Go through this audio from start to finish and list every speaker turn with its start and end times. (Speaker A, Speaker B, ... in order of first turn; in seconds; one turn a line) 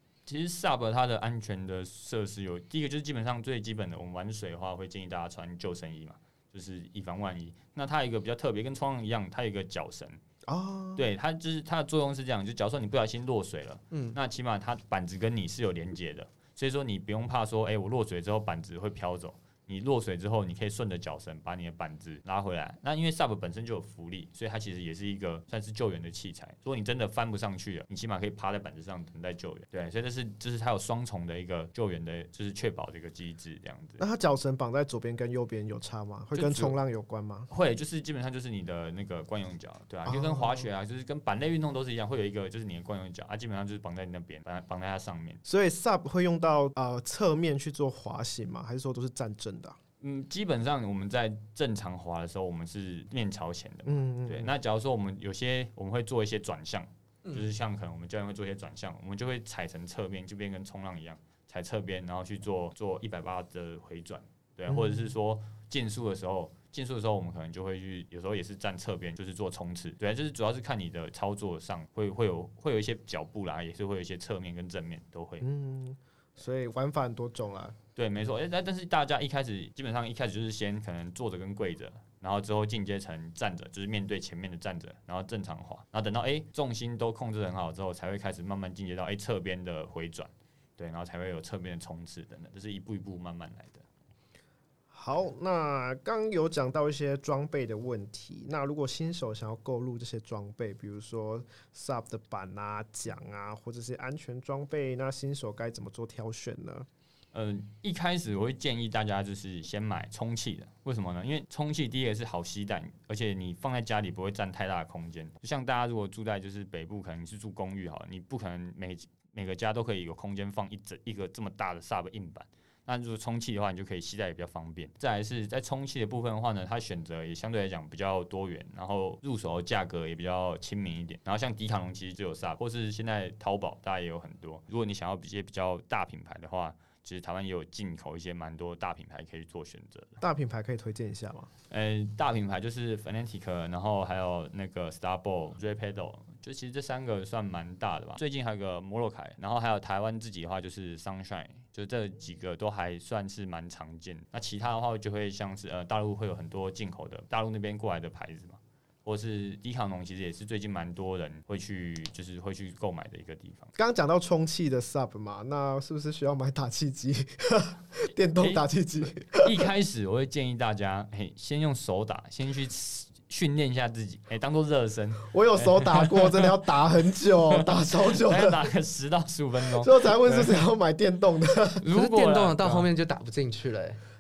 Speaker A: 0.3-10.2
Speaker B: 10.5-11.0
Speaker A: 11.0-34.0
Speaker C: 13.9-14.2
Speaker B: 34.0-37.5
Speaker A: 36.3-36.8
Speaker A: 37.5-45.4
Speaker B: 40.0-40.7
Speaker B: 45.5-49.8
Speaker A: 50.0-75.5
Speaker B: 53.9-54.5
Speaker B: 64.7-65.0
Speaker B: 75.4-77.8
Speaker A: 78.0-93.8
Speaker B: 94.9-106.9
Speaker A: 107.3-140.2
Speaker B: 140.2-141.5
Speaker A: 141.7-163.7
Speaker B: 163.8-169.5
Speaker A: 168.4-168.6
Speaker A: 169.3-176.5
Speaker B: 175.3-178.6
Speaker A: 177.5-180.6
Speaker B: 179.8-181.8
Speaker A: 181.8-182.9
Speaker C: 181.9-184.0